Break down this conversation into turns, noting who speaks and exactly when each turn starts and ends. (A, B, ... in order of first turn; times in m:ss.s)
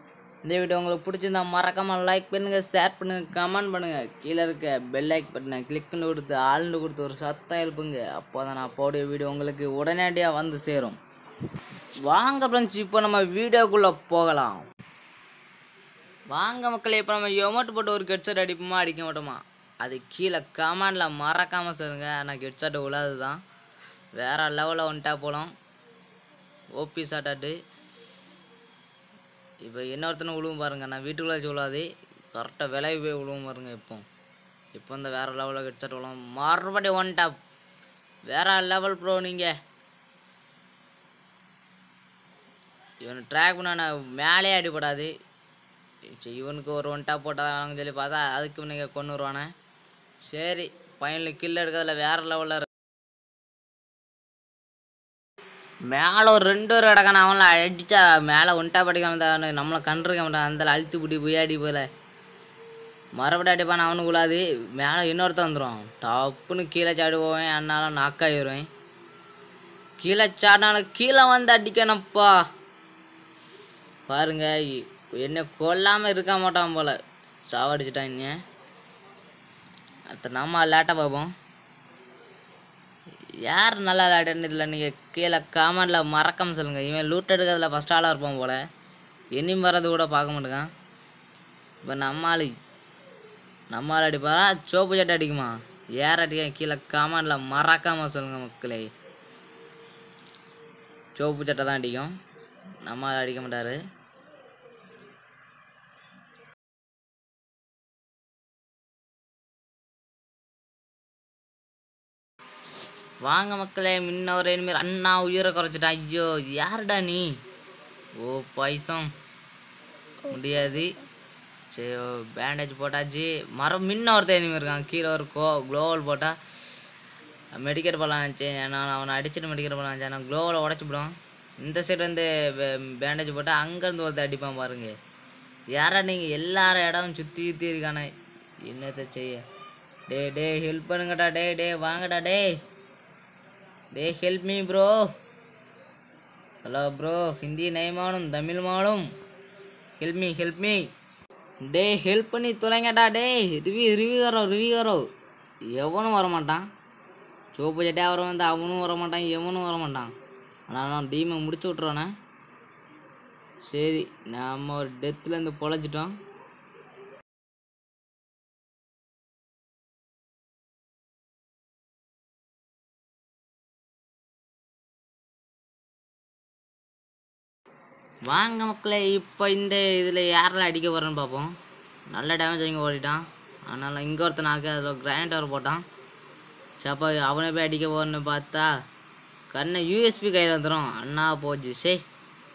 0:00.4-0:11.0 A
0:12.0-0:14.6 A
0:16.3-0:23.4 A
0:24.2-0:25.5 A
0:26.8-0:27.6 A
0:29.6-0:34.0 A
0:34.7-0:37.4 A
0:38.3-0:39.5 A
0:43.0-0:45.1 A
0:46.1-0:49.5 A
0:50.2-0:52.7 A
0:55.8-1:01.9 A
1:03.2-1:08.7 A
1:10.0-1:12.4 A
1:14.1-1:18.4 A
1:20.1-1:21.3 A
1:23.4-1:28.6 A
1:29.3-1:30.7 A
1:31.8-1:32.5 A
1:33.7-1:38.9 A
1:41.1-1:42.1 A
1:42.8-1:43.8 A
1:53.2-1:57.4 A
1:58.2-1:59.1 A
2:00.3-2:01.0 A
2:01.7-2:06.4 A
2:07.6-2:14.9 A
2:15.7-2:18.1 A
2:18.6-2:19.4 A
2:20.1-2:22.5 A
2:23.9-2:25.1 A
2:26.6-2:29.1 A
2:30.0-2:30.8 A
2:31.6-2:35.0 A
2:35.7-2:36.6 A
2:37.5-2:40.1 A
2:40.7-2:42.1 A
2:43.6-2:46.2 A
2:58.2-3:01.5 A
3:02.1-3:05.8 A
3:06.8-3:08.7 A
3:09.5-3:12.0 A